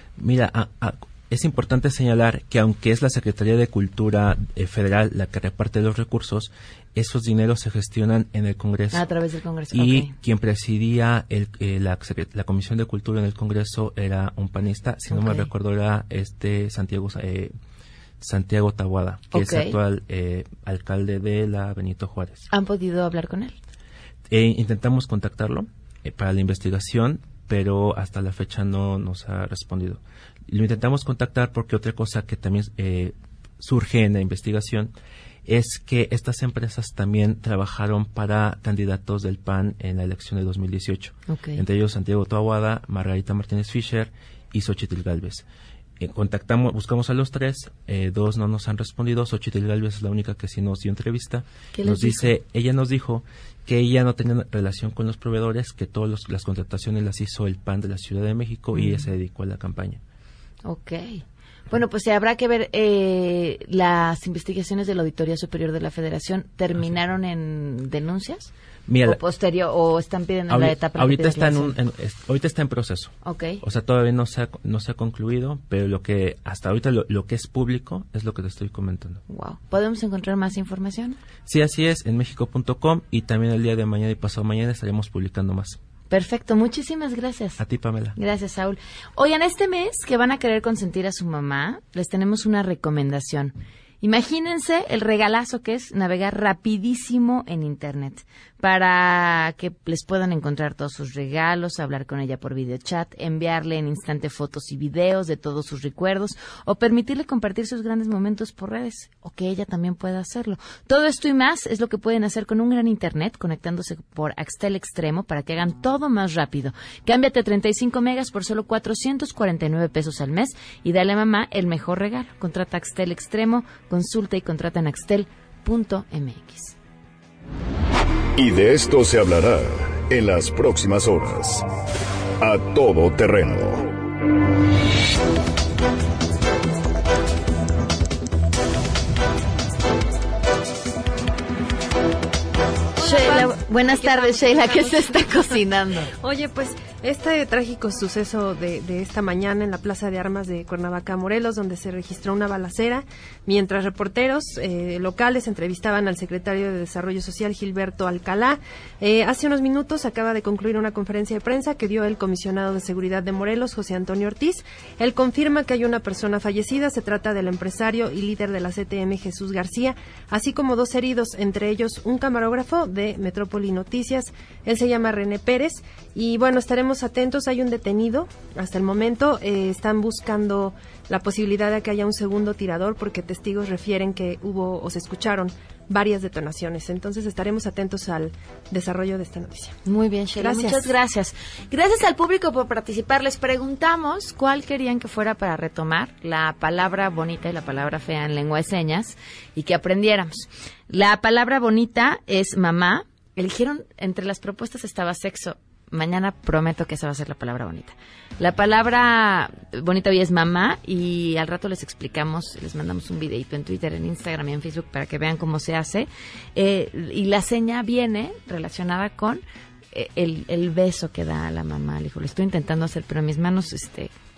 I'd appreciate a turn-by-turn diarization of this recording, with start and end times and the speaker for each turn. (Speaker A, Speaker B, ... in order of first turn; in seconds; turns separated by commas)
Speaker A: 0.2-9.1, Speaker B: 8.9-10.1, Speaker A: 9.7-17.5, Speaker B: 15.1-15.5, Speaker A: 18.2-22.5, Speaker B: 19.3-19.8, Speaker B: 22.5-23.6, Speaker A: 24.3-34.9, Speaker A: 35.5-45.5, Speaker B: 41.3-41.6, Speaker A: 46.0-60.0, Speaker B: 51.7-52.3, Speaker B: 58.7-59.1, Speaker B: 60.6-68.5, Speaker A: 68.9-69.2, Speaker B: 69.0-71.8, Speaker A: 70.5-79.2, Speaker B: 73.2-73.6, Speaker B: 79.3-81.2, Speaker A: 81.5-85.8, Speaker B: 86.1-87.6, Speaker A: 87.6-88.2, Speaker B: 88.2-126.8, Speaker C: 128.4-131.7, Speaker C: 132.4-133.9, Speaker D: 143.0-145.5, Speaker B: 143.0-146.1, Speaker D: 146.1-189.8, Speaker B: 189.8-224.1, Speaker D: 190.4-190.9